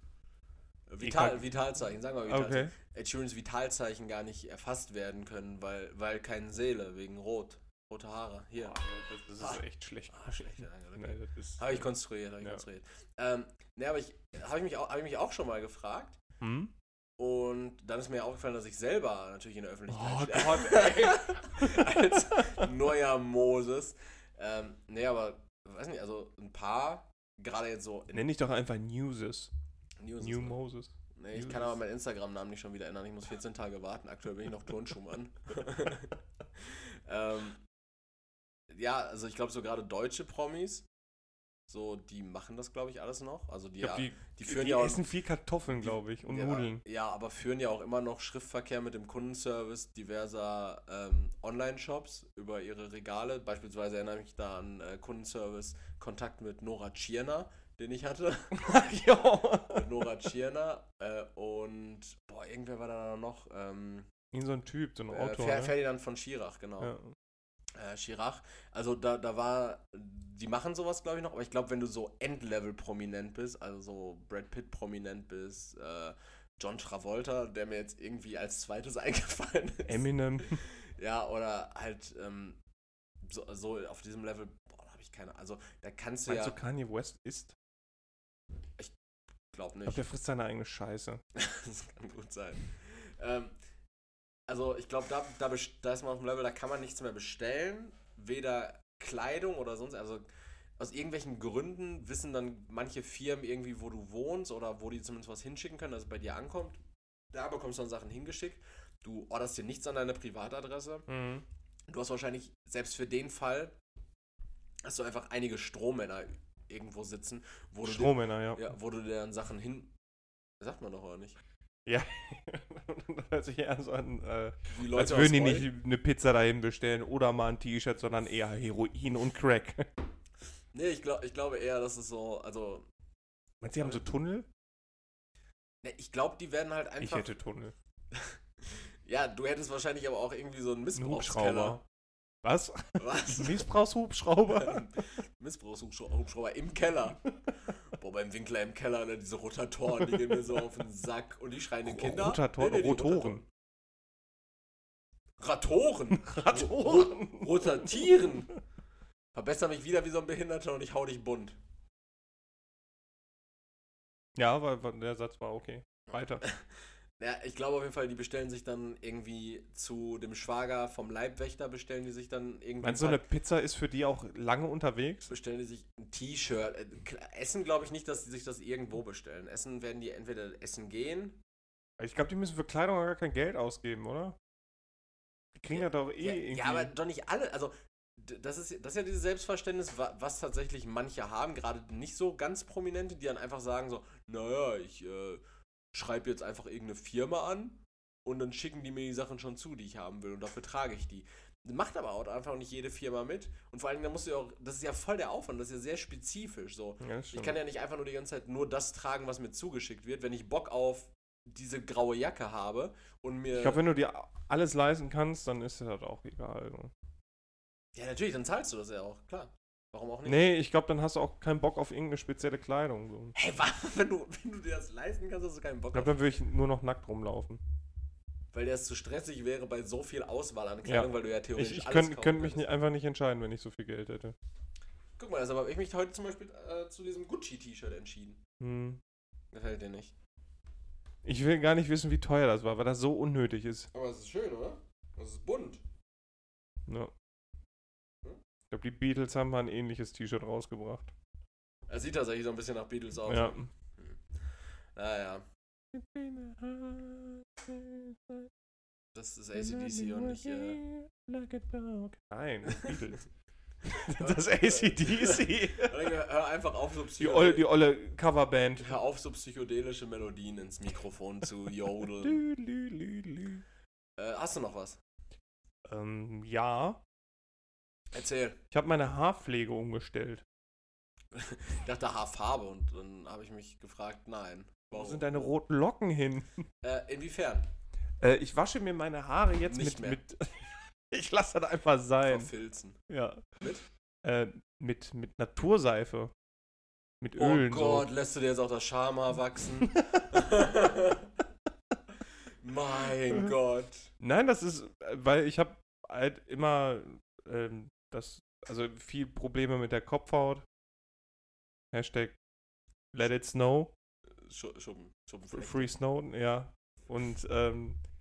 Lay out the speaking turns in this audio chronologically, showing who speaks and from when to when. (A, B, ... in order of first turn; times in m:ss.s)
0:00.9-0:08.8 A
0:01.0-0:01.4 B
0:02.3-0:02.7 B
0:08.6-0:11.9 B
0:09.4-0:16.2 A
0:16.4-0:16.7 B
0:17.2-0:28.2 A
0:19.9-0:22.7 B
0:28.1-0:29.5 B
0:30.0-0:30.6 A
0:30.2-0:31.8 B
0:31.1-0:37.6 A
0:38.7-0:40.9 A
0:41.7-0:45.1 A
0:43.8-0:46.8 B
0:45.7-0:58.7 A
0:58.6-0:59.9 B
0:59.7-1:04.1 A
1:04.3-1:05.7 B
1:05.1-1:06.9 A
1:06.8-1:07.1 B
1:07.7-1:22.6 A
1:19.9-1:20.6 B
1:23.2-1:26.6 A
1:26.3-1:27.5 B
1:29.5-1:30.0 A
1:29.9-1:31.2 B
1:31.3-1:33.6 A
1:34.5-1:40.3 A
1:40.8-1:46.8 A
1:47.3-1:51.1 A
1:51.1-1:51.4 B
1:51.9-1:53.8 A
1:54.8-1:59.9 A
1:57.8-1:58.7 B
2:00.6-2:01.4 A
2:01.9-2:09.9 B
2:04.7-2:05.7 A
2:10.7-2:12.9 A
2:13.6-2:14.5 B
2:15.8-2:17.3 A
2:17.0-2:17.7 B
2:18.1-2:18.4 A
2:19.1-2:21.8 A
2:21.0-2:21.8 B
2:22.4-2:24.8 B
2:23.0-2:23.6 A
2:24.5-2:27.3 A
2:27.8-2:33.5 A
2:31.8-2:33.4 B
2:35.4-2:38.5 A
2:36.1-2:38.3 B
2:39.3-2:41.6 A
2:44.4-2:46.4 B
2:46.1-2:46.7 A
2:47.2-2:53.2 A
2:52.8-2:55.3 B
2:55.3-3:01.4 A
3:02.0-3:04.4 B
3:05.6-3:06.9 B
3:05.7-3:15.4 A
3:15.9-3:33.8 A
3:27.0-3:27.6 B
3:33.5-3:36.9 B
3:38.0-3:40.4 A
3:40.3-3:43.3 B
3:43.4-3:46.1 A
3:45.9-3:47.6 B
3:48.5-3:52.7 A
3:50.8-3:54.4 B
3:55.2-3:58.4 A
3:58.6-3:59.0 B
3:59.5-4:00.1 A
4:01.2-4:03.9 B
4:03.9-4:05.8 A
4:06.9-4:07.1 B
4:08.7-4:11.1 B
4:11.9-4:14.2 A
4:13.3-4:13.7 B
4:15.0-4:15.4 A
4:15.9-4:18.5 B
4:19.1-4:20.8 A
4:19.6-4:23.2 B
4:23.9-4:26.1 B
4:23.9-4:27.7 A
4:27.2-4:28.9 B
4:28.8-4:32.4 A
4:32.2-4:33.6 B
4:34.2-4:35.0 A
4:35.8-4:37.0 B
4:38.1-4:38.6 A
4:38.7-4:40.4 B
4:41.3-4:45.4 A
4:44.9-4:46.6 B
4:46.8-4:47.7 A
4:48.2-4:52.5 B
4:49.7-4:50.2 A
4:52.3-4:53.0 A
4:53.1-4:53.6 B
4:53.6-4:53.8 A
4:54.2-4:56.3 B
4:57.2-4:58.1 B
4:57.4-5:01.3 A
4:59.9-5:00.3 B
5:02.6-5:04.1 A
5:04.2-5:10.6 B
5:11.9-5:12.4 B
5:13.1-5:13.9 B
5:14.4-5:15.9 A
5:15.5-5:18.0 B